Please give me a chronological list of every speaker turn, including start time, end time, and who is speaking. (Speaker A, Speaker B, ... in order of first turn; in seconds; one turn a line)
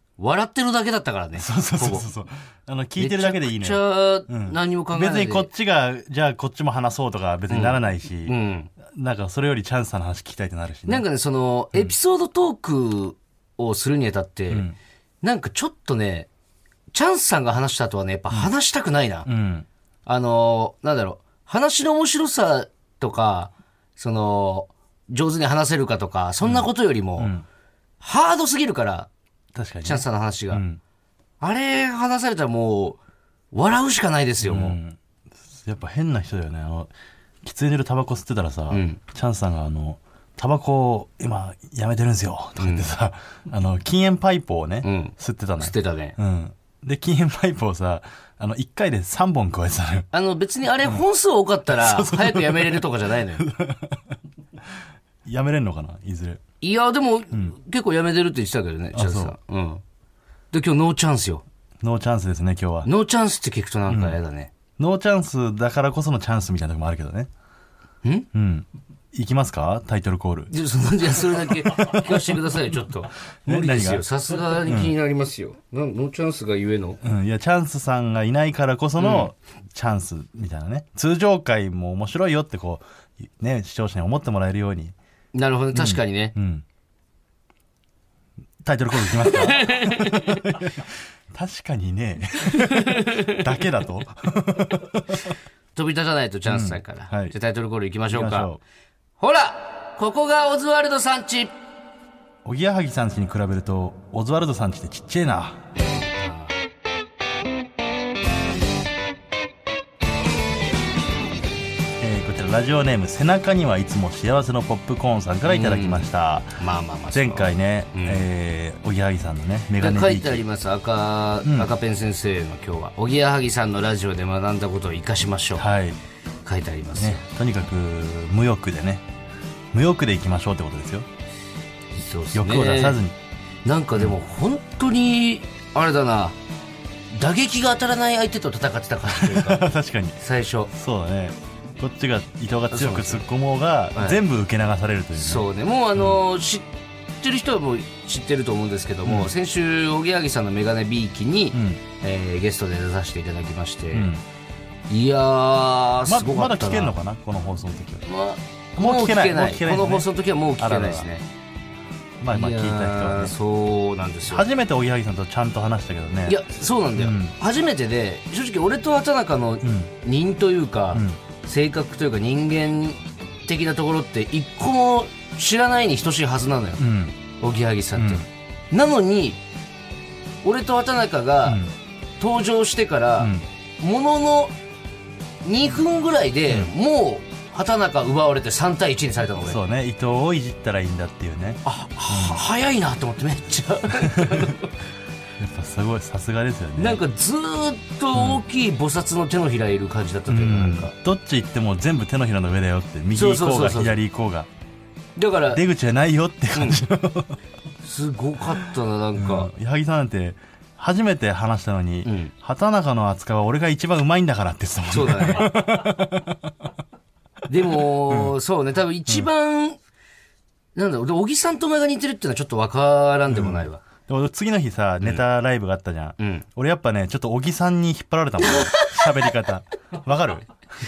Speaker A: 0.2-2.0
Speaker B: 1.4-11.1
Speaker A: 3.0-5.5
Speaker A: 7.5-8.7
Speaker A: 10.9-14.7
Speaker B: 14.5-14.8
Speaker A: 15.2-16.3
Speaker A: 16.9-19.3
Speaker B: 19.2-19.7
Speaker A: 20.1-27.4
Speaker B: 26.4-27.4
Speaker A: 28.0-29.1
Speaker B: 29.5-30.8
Speaker A: 29.8-30.6
Speaker A: 31.4-33.0
Speaker A: 33.5-34.8
Speaker B: 34.4-35.0
Speaker B: 35.5-36.9
Speaker B: 37.4-50.1
Speaker A: 38.7-39.0
Speaker A: 42.6-42.9
Speaker A: 44.8-46.2
Speaker A: 50.1-53.5
Speaker B: 51.7-52.8
Speaker B: 53.4-54.1
Speaker B: 55.2-56.4
Speaker A: 56.6-59.8
Speaker B: 58.9-59.3
Speaker A: 60.5-61.4
Speaker B: 61.8-62.9
Speaker A: 62.8-64.5
Speaker B: 63.9-64.2
Speaker B: 64.8-67.3
Speaker B: 68.3-70.5
Speaker A: 70.5-77.0
Speaker B: 71.3-72.5
Speaker B: 73.5-74.0
Speaker B: 74.6-74.9
Speaker B: 77.0-84.9
Speaker A: 79.0-79.3
Speaker A: 85.3-86.3
Speaker B: 85.7-86.6
Speaker B: 88.6-95.3
Speaker A: 89.0-90.6
Speaker A: 92.4-93.5
Speaker A: 95.7-98.5
Speaker B: 96.5-97.3
Speaker B: 98.1-98.6
Speaker A: 99.2-101.5
Speaker B: 102.4-105.6
Speaker A: 106.2-106.5
Speaker B: 112.0-116.6
Speaker A: 115.5-118.2
Speaker B: 117.1-120.4
Speaker A: 119.8-125.7
Speaker B: 121.4-121.7
Speaker B: 125.6-126.0
Speaker A: 126.4-127.2
Speaker B: 126.9-129.0
Speaker B: 129.7-131.1
Speaker A: 131.9-133.0
Speaker B: 132.3-133.2
Speaker A: 133.7-136.3
Speaker A: 137.1-139.7
Speaker B: 139.1-140.2
Speaker A: 140.2-140.7
Speaker B: 140.7-146.2
Speaker A: 142.7-143.2
Speaker A: 143.9-144.2
Speaker A: 145.2-146.7
Speaker A: 147.2-154.1
Speaker B: 149.0-149.3
Speaker B: 151.5-151.8
Speaker B: 153.9-154.2
Speaker A: 154.9-156.9
Speaker B: 156.1-158.1
Speaker A: 158.1-161.2
Speaker B: 158.8-161.1
Speaker B: 162.2-163.3
Speaker A: 162.3-164.4
Speaker B: 164.2-166.4
Speaker A: 166.3-179.4
Speaker B: 166.9-167.3
Speaker B: 169.6-169.9
Speaker B: 170.9-171.2
Speaker B: 176.8-177.2
Speaker B: 177.9-178.2
Speaker A: 180.4-181.6
Speaker B: 181.4-181.7
Speaker A: 182.2-184.5
Speaker B: 183.2-183.4
Speaker A: 185.4-189.6
Speaker B: 186.5-186.7
Speaker B: 189.4-192.4
Speaker A: 191.7-194.8
Speaker B: 194.0-194.5
Speaker B: 195.4-197.0
Speaker A: 196.8-200.9
Speaker B: 198.1-198.4
Speaker B: 200.3-204.5
Speaker A: 203.1-204.0
Speaker A: 205.2-205.6
Speaker B: 205.5-207.4
Speaker A: 207.8-209.5
Speaker B: 209.2-216.5
Speaker A: 212.0-212.3
Speaker A: 214.9-215.5
Speaker A: 217.5-219.8
Speaker B: 218.1-218.3
Speaker A: 220.8-223.8
Speaker B: 223.3-230.5
Speaker A: 226.2-226.4
Speaker A: 228.4-229.3